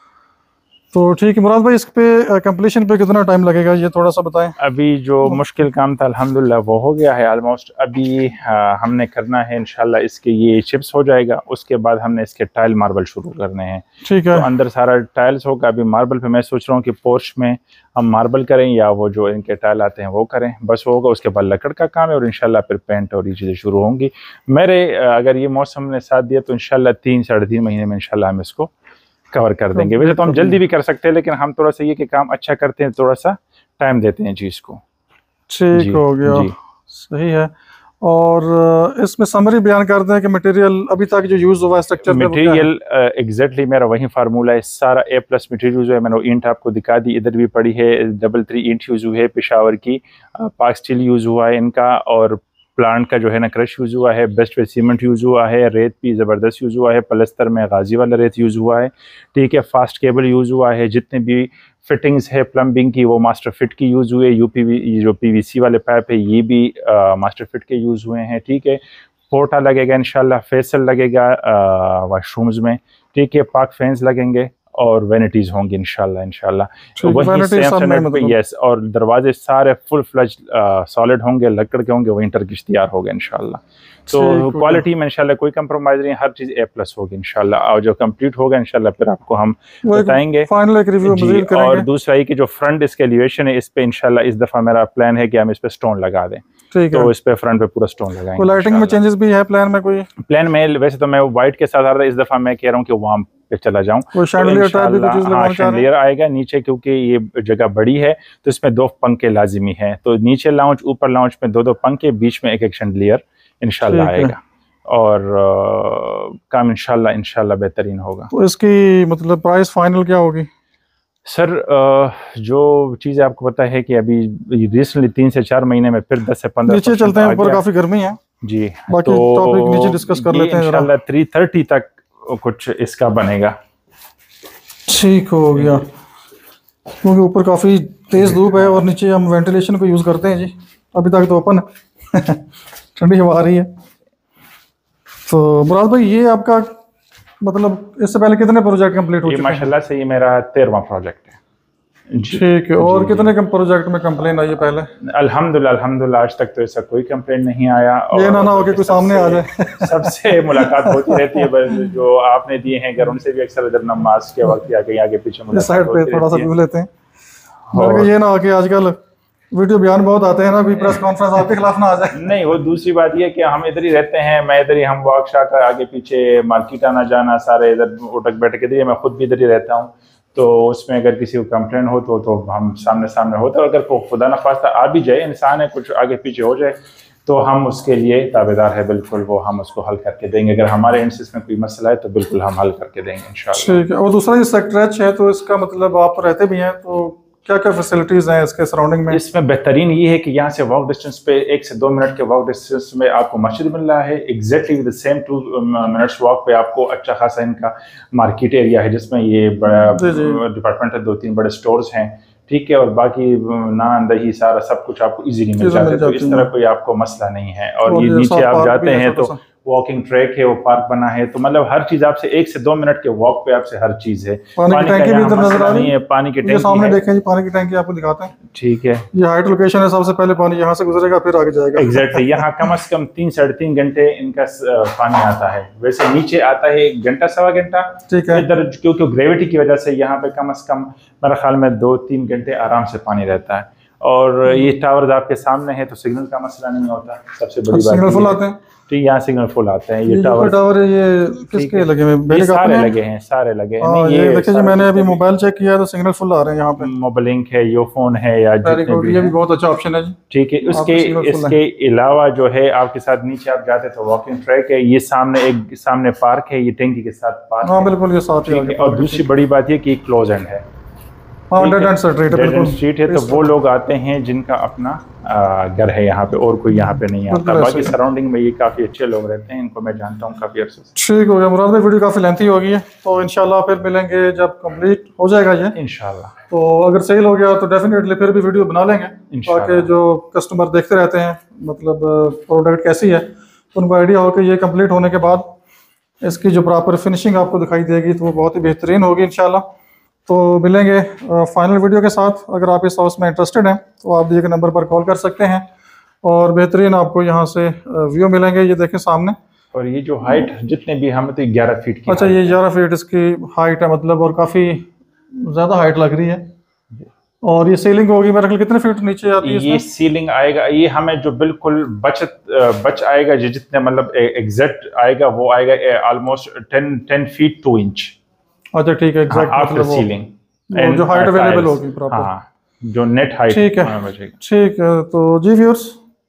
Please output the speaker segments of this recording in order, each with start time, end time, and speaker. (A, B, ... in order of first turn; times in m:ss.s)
0:00.9-0:04.6 A
0:04.6-0:28.7 B
0:14.0-0:14.4 A
0:29.3-0:34.8 B
0:29.7-0:30.6 A
0:35.5-0:42.7 A
0:35.7-0:36.5 B
0:42.1-1:30.5 B
1:17.0-1:18.4 A
1:24.1-1:24.8 A
1:29.8-1:31.9 A
1:31.0-1:39.0 B
1:36.7-1:37.1 A
1:38.4-1:40.1 A
1:40.2-1:58.3 B
1:44.1-1:45.8 A
1:53.8-1:54.3 A
1:58.3-2:00.5 A
2:01.2-2:07.6 B
2:06.7-2:08.2 A
2:08.4-2:13.6 B
2:08.9-2:10.9 A
2:14.9-2:15.8 A
2:15.5-2:15.8 B
2:17.0-2:22.4 A
2:18.2-2:18.8 B
2:23.0-2:23.7 A
2:25.3-2:26.7 A
2:27.4-2:29.7 A
2:29.2-2:31.4 B
2:32.1-2:33.3 B
2:32.3-2:34.9 A
2:35.0-2:46.5 B
2:38.1-2:41.5 A
2:45.5-2:46.9 A
2:47.7-2:48.1 B
2:47.7-2:49.0 A
2:49.5-2:52.3 A
2:52.1-3:13.8 B
3:13.5-3:19.2 A
3:19.1-3:47.0 B
3:29.9-3:30.4 A
3:35.6-3:36.5 A
3:37.8-3:39.4 A
3:44.6-3:48.3 A
3:48.5-3:49.1 B
3:49.1-3:52.4 A
3:51.7-4:10.6 B
3:58.1-3:58.4 A
4:07.7-4:08.6 A
4:10.1-4:13.0 A
4:11.5-4:15.2 B
4:13.8-4:16.9 A
4:16.8-4:19.3 B
4:18.6-4:20.2 A
4:20.3-4:27.9 B
4:20.7-4:21.6 A
4:27.6-4:29.2 A
4:28.4-4:30.6 B
4:31.5-4:33.5 A
4:31.6-4:40.9 B
4:36.7-4:38.0 A
4:41.0-4:45.8 A
4:45.7-4:46.3 B
4:46.5-4:55.4 A
4:49.3-4:49.9 B
4:56.2-4:59.6 A
5:00.2-5:05.7 A
5:06.2-5:09.4 A
5:09.7-5:12.6 B
5:12.1-5:14.9 A
5:15.4-5:16.4 A
5:17.4-5:19.8 A
5:19.4-5:28.2 B
5:28.7-5:30.1 A
5:29.3-5:34.4 B
5:30.7-5:32.3 A
5:33.5-5:36.0 A